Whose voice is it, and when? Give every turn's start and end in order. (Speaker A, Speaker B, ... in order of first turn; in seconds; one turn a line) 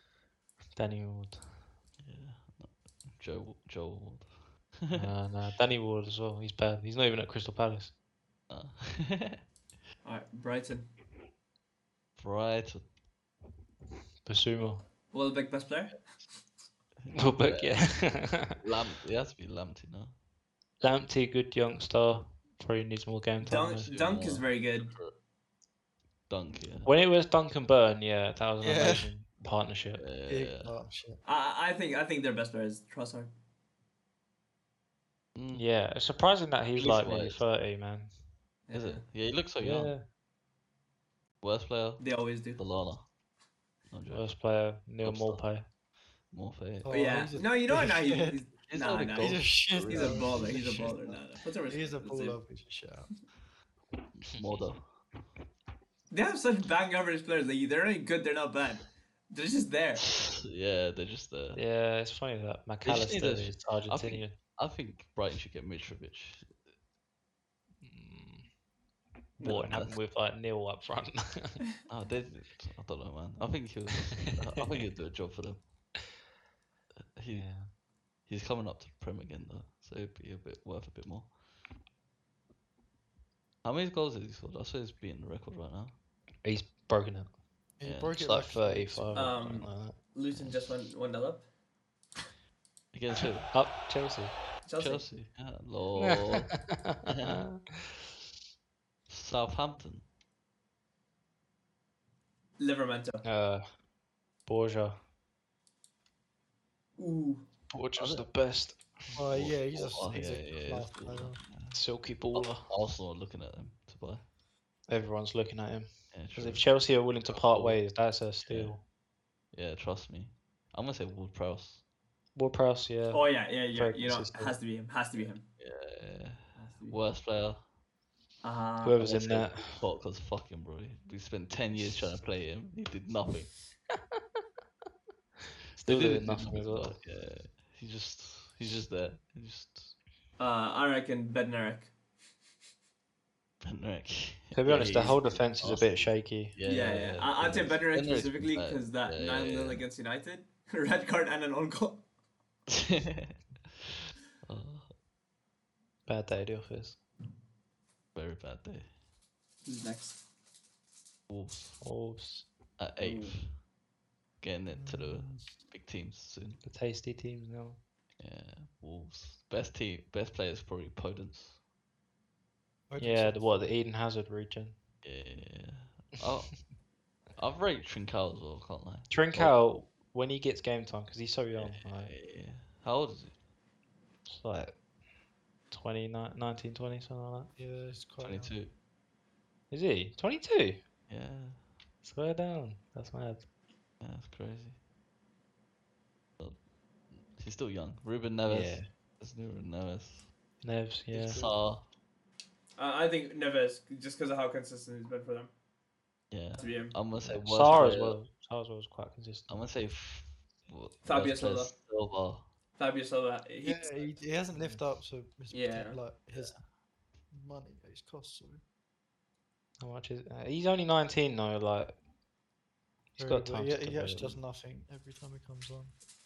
Speaker A: 0.7-1.5
Speaker B: 2.0-5.1
Speaker A: 4.9-7.9
Speaker B: 8.5-9.4
Speaker C: 10.0-10.9
Speaker B: 12.2-12.9
Speaker A: 14.2-14.8
Speaker C: 15.1-16.0
Speaker B: 17.0-17.8
Speaker A: 17.1-18.6
Speaker B: 18.6-20.1
Speaker A: 20.8-23.9
Speaker C: 23.4-24.9
Speaker B: 23.9-25.1
Speaker B: 26.3-26.9
Speaker A: 26.8-30.0
Speaker D: 28.6-29.1
Speaker B: 30.0-30.7
Speaker D: 30.3-31.2
Speaker C: 31.2-33.3
Speaker B: 35.3-35.7
Speaker A: 35.5-38.1
Speaker B: 36.8-37.4
Speaker C: 38.7-39.0
Speaker B: 38.7-39.9
Speaker A: 39.6-40.0
Speaker B: 41.4-43.0
Speaker C: 42.0-42.6
Speaker B: 43.9-44.4
Speaker A: 44.1-45.6
Speaker B: 45.0-45.5
Speaker B: 46.3-47.0
Speaker D: 46.8-48.4
Speaker C: 46.9-52.4
Speaker B: 48.7-50.6
Speaker D: 49.2-53.1
Speaker B: 54.2-54.9
Speaker C: 56.1-60.0
Speaker B: 60.1-61.6
Speaker A: 61.5-64.4
Speaker B: 62.8-66.5
Speaker A: 67.8-68.5
Speaker A: 69.4-71.6
Speaker B: 69.4-70.0
Speaker B: 71.8-75.6
Speaker B: 77.2-77.7
Speaker A: 77.3-77.7
Speaker B: 78.2-81.3
Speaker B: 83.6-85.9
Speaker A: 86.4-87.3
Speaker D: 87.8-89.3
Speaker B: 87.8-88.2
Speaker A: 88.2-90.0
Speaker C: 89.1-91.4
Speaker B: 92.9-93.7
Speaker A: 93.5-94.4
Speaker C: 94.6-95.0
Speaker B: 94.8-97.4
Speaker A: 96.0-97.8
Speaker B: 99.1-100.0
Speaker C: 102.6-103.2
Speaker A: 103.2-103.7
Speaker A: 104.4-105.0
Speaker C: 107.0-107.4
Speaker A: 107.7-109.1
Speaker B: 108.0-108.2
Speaker D: 109.1-111.5
Speaker B: 109.2-114.2
Speaker A: 111.7-112.7
Speaker A: 114.9-118.8
Speaker B: 116.1-118.9
Speaker B: 119.5-121.8
Speaker A: 122.3-124.5
Speaker C: 123.1-125.4
Speaker B: 125.6-127.6
Speaker C: 126.5-127.0
Speaker C: 128.4-129.0
Speaker A: 128.8-129.8
Speaker B: 129.0-133.6
Speaker A: 135.8-137.0
Speaker B: 135.8-139.9
Speaker C: 140.4-141.9
Speaker B: 143.6-149.8
Speaker A: 144.5-146.5
Speaker C: 146.6-152.0
Speaker B: 152.7-153.4
Speaker B: 154.4-154.9
Speaker A: 156.1-157.0
Speaker B: 158.1-158.9
Speaker C: 159.6-160.2
Speaker B: 161.3-161.8
Speaker A: 161.8-162.5
Speaker B: 162.8-163.6
Speaker C: 163.0-163.4
Speaker B: 164.4-166.6
Speaker D: 164.7-165.5
Speaker A: 166.6-167.8
Speaker B: 168.2-171.6
Speaker D: 172.9-173.7
Speaker A: 173.0-174.8
Speaker B: 175.0-176.7
Speaker B: 177.3-179.5
Speaker A: 179.1-182.1
Speaker B: 181.6-183.3
Speaker A: 184.3-184.8
Speaker A: 185.7-187.5
Speaker D: 187.6-188.5
Speaker B: 188.2-188.7
Speaker A: 189.7-190.8
Speaker B: 191.1-191.6
Speaker A: 192.0-193.5
Speaker B: 194.0-194.8
Speaker B: 197.2-200.3
Speaker A: 198.5-198.8
Speaker A: 200.6-201.5
Speaker B: 201.1-201.8
Speaker C: 202.8-205.5
Speaker B: 206.3-208.2
Speaker C: 206.6-206.9
Speaker A: 207.2-209.6
Speaker B: 209.5-212.4
Speaker C: 211.0-211.7
Speaker C: 212.8-214.1
Speaker D: 213.6-216.6
Speaker A: 214.5-214.8
Speaker C: 215.5-216.0
Speaker D: 217.3-218.6
Speaker A: 219.8-221.9
Speaker A: 223.2-224.4
Speaker D: 223.2-225.9